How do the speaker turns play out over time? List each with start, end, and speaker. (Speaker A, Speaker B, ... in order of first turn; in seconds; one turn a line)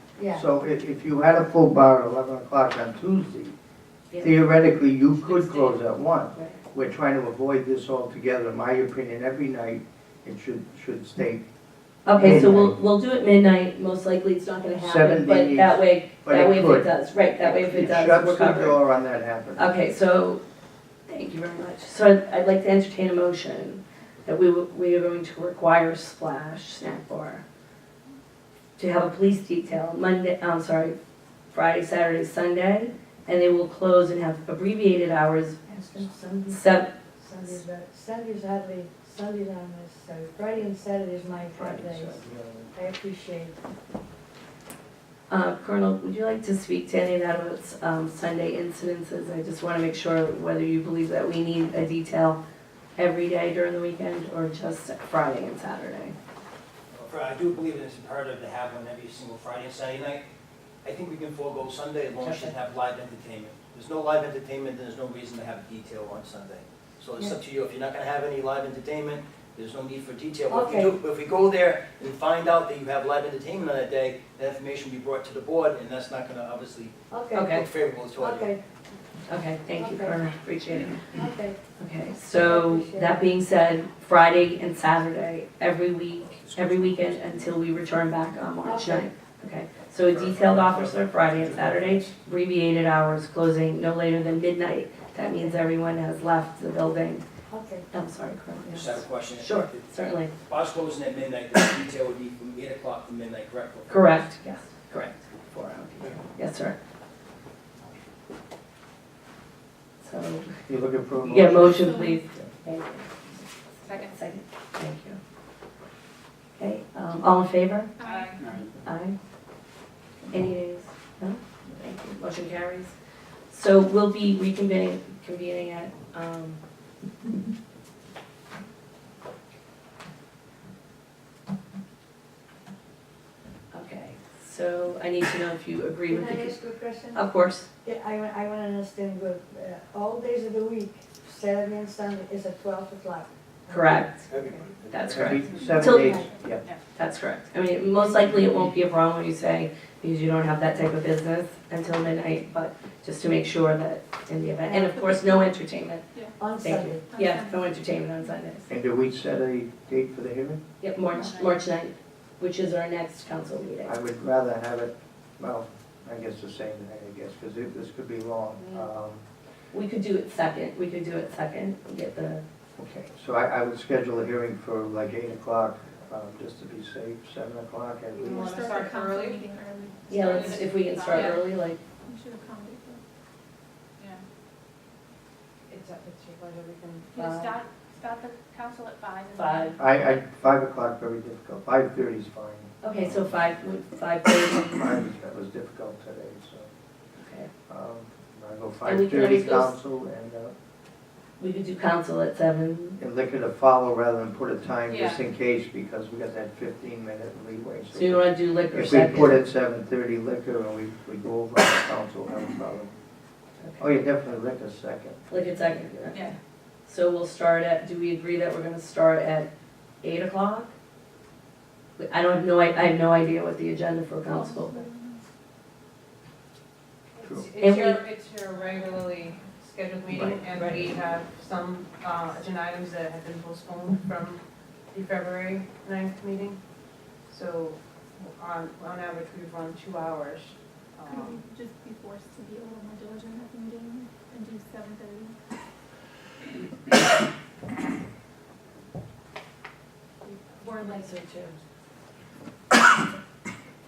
Speaker A: 0.2-0.5
Speaker B: 0.3-3.6
Speaker C: 4.1-4.4
Speaker B: 4.2-11.4
Speaker C: 5.1-5.8
Speaker C: 6.3-6.6
Speaker C: 12.1-18.8
Speaker B: 12.1-12.8
Speaker B: 14.8-19.7
Speaker C: 19.6-20.4
Speaker C: 21.1-27.4
Speaker C: 28.8-30.9
Speaker C: 31.5-35.6
Speaker A: 35.7-36.6
Speaker C: 36.5-36.9
Speaker A: 37.2-42.2
Speaker B: 41.5-42.7
Speaker A: 42.7-43.6
Speaker C: 45.3-52.4
Speaker C: 53.0-56.2
Speaker D: 56.9-60.2
Speaker D: 60.8-76.9
Speaker C: 62.2-62.5
Speaker A: 70.5-71.0
Speaker A: 77.1-77.5
Speaker C: 77.3-77.7
Speaker D: 77.5-78.6
Speaker A: 78.2-78.6
Speaker C: 79.3-81.0
Speaker A: 79.8-80.2
Speaker A: 81.0-81.6
Speaker C: 81.8-97.2
Speaker A: 82.3-83.3
Speaker D: 86.4-87.6
Speaker A: 88.6-89.1
Speaker D: 90.1-92.1
Speaker A: 97.5-97.9
Speaker C: 97.9-100.3
Speaker D: 98.6-99.9
Speaker D: 100.5-104.2
Speaker C: 103.9-106.8
Speaker C: 110.0-110.5
Speaker B: 110.7-112.5
Speaker C: 111.2-115.2
Speaker E: 111.8-112.2
Speaker F: 113.9-114.1
Speaker C: 116.6-117.9
Speaker E: 118.0-118.7
Speaker F: 118.1-118.3
Speaker C: 118.8-119.2
Speaker C: 120.3-123.0
Speaker C: 123.5-126.6
Speaker C: 133.7-136.6
Speaker A: 136.1-137.2
Speaker C: 137.1-137.7
Speaker A: 137.8-144.6
Speaker C: 143.7-144.3
Speaker D: 144.3-145.4
Speaker C: 144.9-146.2
Speaker B: 145.1-146.6
Speaker A: 145.7-146.3
Speaker C: 146.9-156.0
Speaker E: 154.7-155.5
Speaker E: 156.1-156.4
Speaker A: 156.4-157.1
Speaker C: 156.6-158.7
Speaker E: 157.1-158.4
Speaker B: 158.7-160.6
Speaker C: 160.8-163.9
Speaker B: 163.8-169.2
Speaker C: 169.7-172.4
Speaker B: 172.8-178.5
Speaker F: 178.3-179.4
Speaker E: 178.3-181.5
Speaker C: 180.1-181.8
Speaker F: 180.3-181.2
Speaker E: 182.0-183.0
Speaker F: 185.7-189.7
Speaker C: 187.2-187.5
Speaker C: 189.4-189.8
Speaker B: 189.8-193.4
Speaker C: 192.8-194.9
Speaker B: 194.8-196.7
Speaker C: 197.2-197.5
Speaker B: 197.7-200.5
Speaker C: 198.8-199.7
Speaker C: 201.4-203.0
Speaker B: 203.0-212.9
Speaker C: 207.9-209.4
Speaker B: 213.8-216.2
Speaker C: 215.3-216.3
Speaker C: 216.9-219.5
Speaker C: 220.0-220.7
Speaker C: 222.0-224.9
Speaker E: 224.3-225.3
Speaker B: 227.2-227.5
Speaker F: 227.4-234.3
Speaker C: 227.6-228.0
Speaker C: 230.1-230.9
Speaker F: 234.9-236.5
Speaker F: 237.3-237.7
Speaker F: 238.4-240.4
Speaker F: 241.0-241.4
Speaker E: 241.1-245.4
Speaker F: 250.3-251.1
Speaker C: 250.8-251.6